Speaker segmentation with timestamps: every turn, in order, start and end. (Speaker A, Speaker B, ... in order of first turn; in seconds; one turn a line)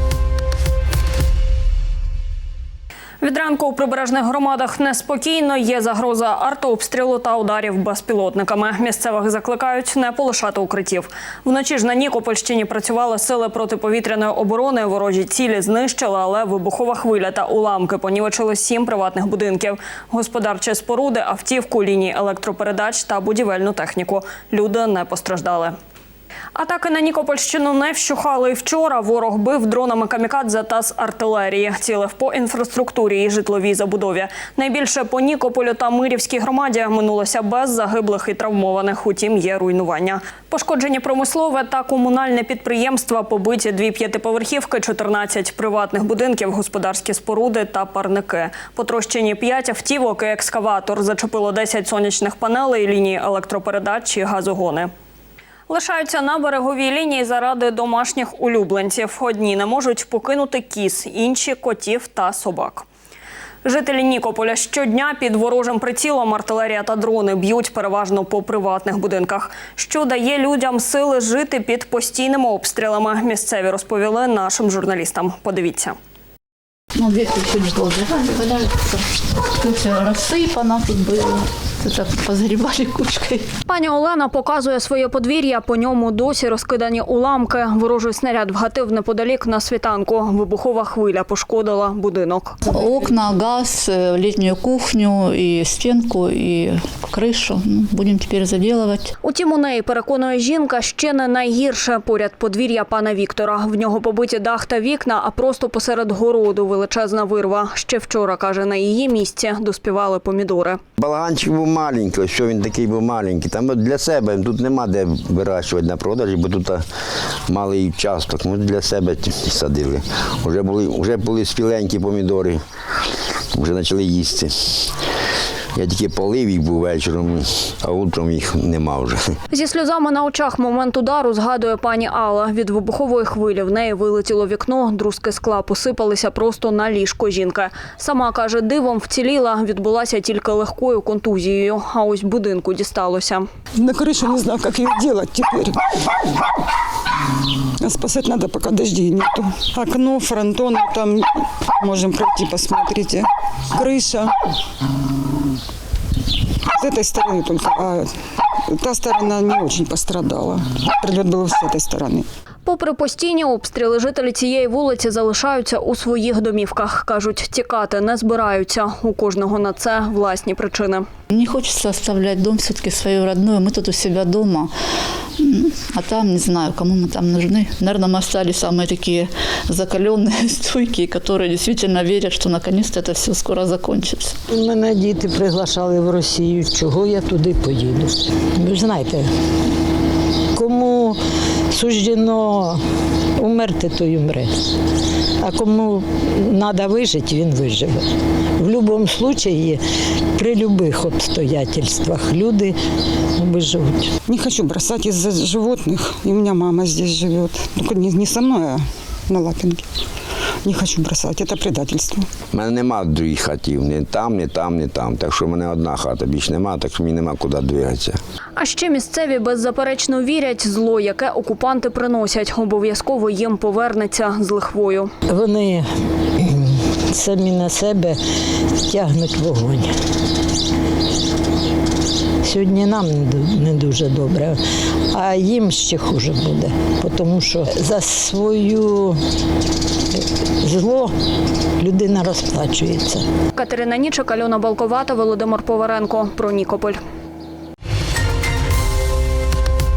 Speaker A: 3.2-25.7
Speaker A: 26.6-54.9
Speaker A: 55.7-62.9
Speaker A: 63.6-75.9
Speaker B: 76.9-79.0
Speaker B: 79.6-83.5
Speaker A: 83.7-92.6
Speaker B: 92.7-99.1
Speaker A: 99.2-110.8
Speaker C: 111.0-116.8
Speaker C: 117.5-122.6
Speaker C: 123.5-124.9
Speaker C: 125.7-129.2
Speaker A: 129.5-143.5
Speaker D: 143.8-145.8
Speaker D: 147.8-151.3
Speaker D: 151.8-154.3
Speaker D: 156.8-158.1
Speaker D: 158.7-162.3
Speaker A: 162.7-171.0
Speaker B: 171.3-174.7
Speaker B: 175.4-184.4
Speaker E: 184.5-189.3
Speaker E: 190.5-191.2
Speaker E: 191.7-192.8
Speaker E: 193.4-194.5
Speaker E: 195.4-198.0
Speaker E: 198.6-199.8
Speaker E: 200.4-202.7
Speaker E: 203.4-204.1
Speaker D: 204.2-209.8
Speaker D: 210.6-212.3
Speaker C: 212.5-218.2
Speaker A: 218.6-225.1
Speaker E: 225.3-225.8
Speaker E: 227.1-228.1
Speaker E: 228.9-229.8
Speaker E: 232.4-234.5
Speaker E: 235.1-239.1
Speaker E: 240.6-241.1
Speaker E: 241.8-243.2
Speaker A: 243.5-247.0